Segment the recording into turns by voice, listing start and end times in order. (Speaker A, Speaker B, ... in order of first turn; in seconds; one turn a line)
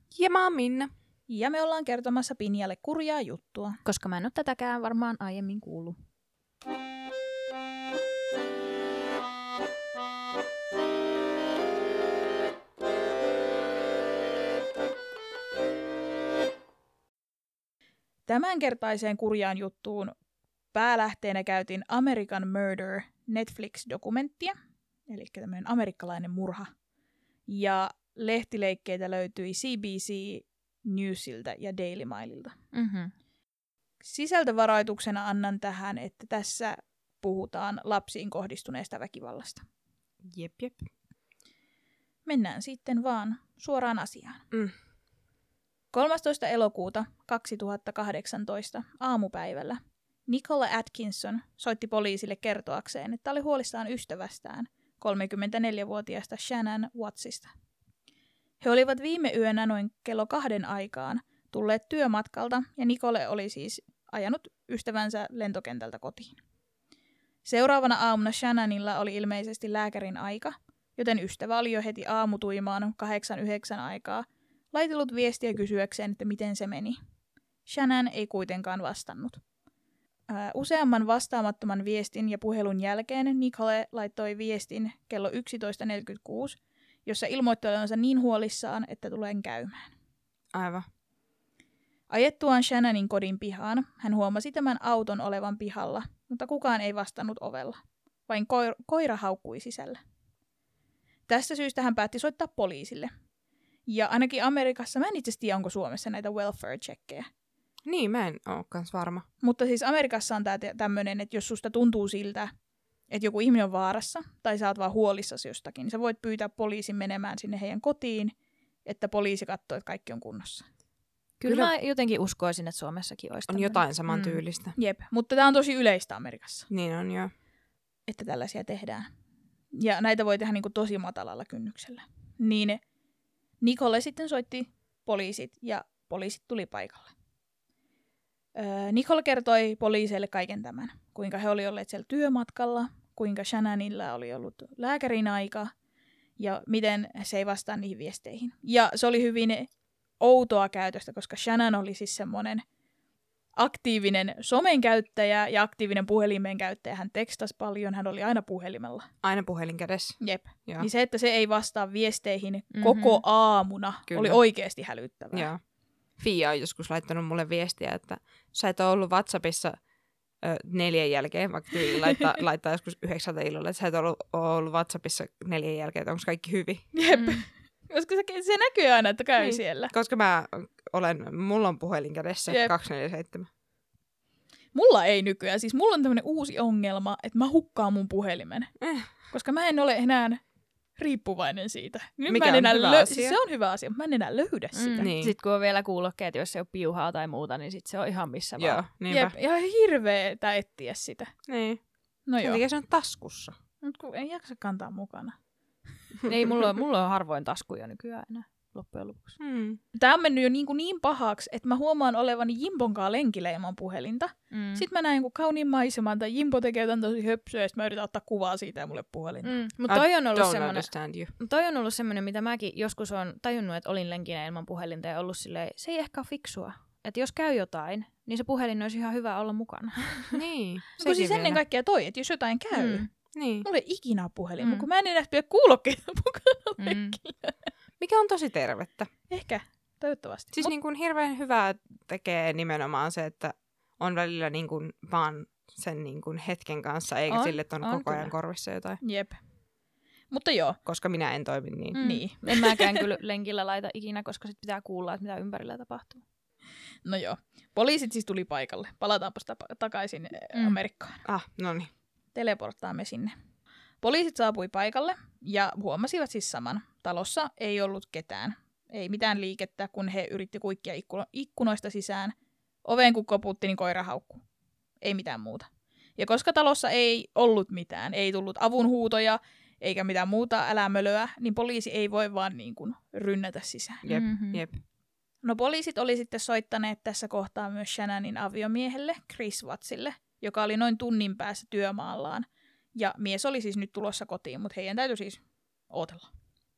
Speaker A: 0.1-0.9
Speaker B: 1.3-3.8
Speaker C: 3.9-6.0
Speaker B: 18.3-20.1
Speaker B: 20.7-24.6
Speaker B: 25.1-26.7
Speaker B: 27.5-32.5
Speaker C: 32.7-33.1
Speaker B: 34.0-39.6
Speaker A: 40.2-40.9
Speaker B: 42.2-44.4
Speaker B: 45.9-57.5
Speaker B: 58.6-66.4
Speaker B: 67.4-77.0
Speaker B: 77.7-79.4
Speaker B: 80.3-89.9
Speaker A: 90.5-90.9
Speaker B: 92.1-100.0
Speaker B: 101.3-103.1
Speaker B: 103.9-107.3
Speaker A: 107.8-109.2
Speaker B: 109.4-112.5
Speaker B: 113.1-118.3
Speaker B: 118.8-120.7
Speaker C: 121.4-124.4
Speaker A: 121.4-121.7
Speaker A: 123.5-124.8
Speaker B: 124.8-126.7
Speaker A: 126.7-127.3
Speaker B: 128.1-129.1
Speaker B: 129.7-132.8
Speaker B: 133.6-137.1
Speaker B: 138.6-145.7
Speaker B: 146.4-149.7
Speaker B: 150.2-152.6
Speaker B: 153.6-159.1
Speaker A: 159.2-160.9
Speaker B: 160.2-165.5
Speaker C: 162.7-163.2
Speaker A: 164.1-164.4
Speaker A: 165.3-165.6
Speaker A: 166.2-169.8
Speaker A: 170.4-176.9
Speaker B: 176.9-179.9
Speaker C: 177.1-177.4
Speaker A: 179.4-183.5
Speaker B: 182.5-182.7
Speaker B: 184.7-188.7
Speaker A: 188.8-189.1
Speaker B: 189.3-190.4
Speaker B: 190.9-195.1
Speaker A: 192.3-193.4
Speaker C: 194.8-198.8
Speaker A: 195.0-195.3
Speaker A: 198.6-199.3
Speaker B: 199.1-201.3
Speaker A: 201.5-201.8
Speaker B: 202.2-202.6
Speaker A: 202.4-203.5
Speaker B: 203.8-205.3
Speaker C: 206.2-209.4
Speaker A: 209.4-209.8
Speaker B: 209.9-219.6
Speaker C: 214.5-214.8
Speaker C: 219.4-230.4
Speaker A: 219.9-221.3
Speaker A: 230.3-231.6
Speaker B: 231.0-233.1
Speaker C: 232.7-233.1
Speaker A: 233.3-233.7
Speaker B: 233.6-237.7
Speaker C: 234.6-234.8
Speaker C: 236.8-237.2
Speaker A: 238.0-239.1
Speaker B: 239.3-240.7
Speaker A: 240.5-249.0
Speaker C: 247.3-248.3
Speaker B: 249.0-249.4
Speaker B: 250.3-250.8
Speaker A: 250.8-252.0
Speaker C: 251.9-256.2
Speaker B: 252.0-252.9
Speaker B: 257.1-261.2
Speaker C: 260.5-260.8
Speaker A: 261.2-261.9
Speaker B: 262.3-263.3
Speaker B: 264.0-272.3
Speaker B: 272.8-274.4
Speaker B: 275.0-284.0
Speaker A: 284.1-284.8
Speaker C: 284.1-284.6
Speaker B: 285.4-296.3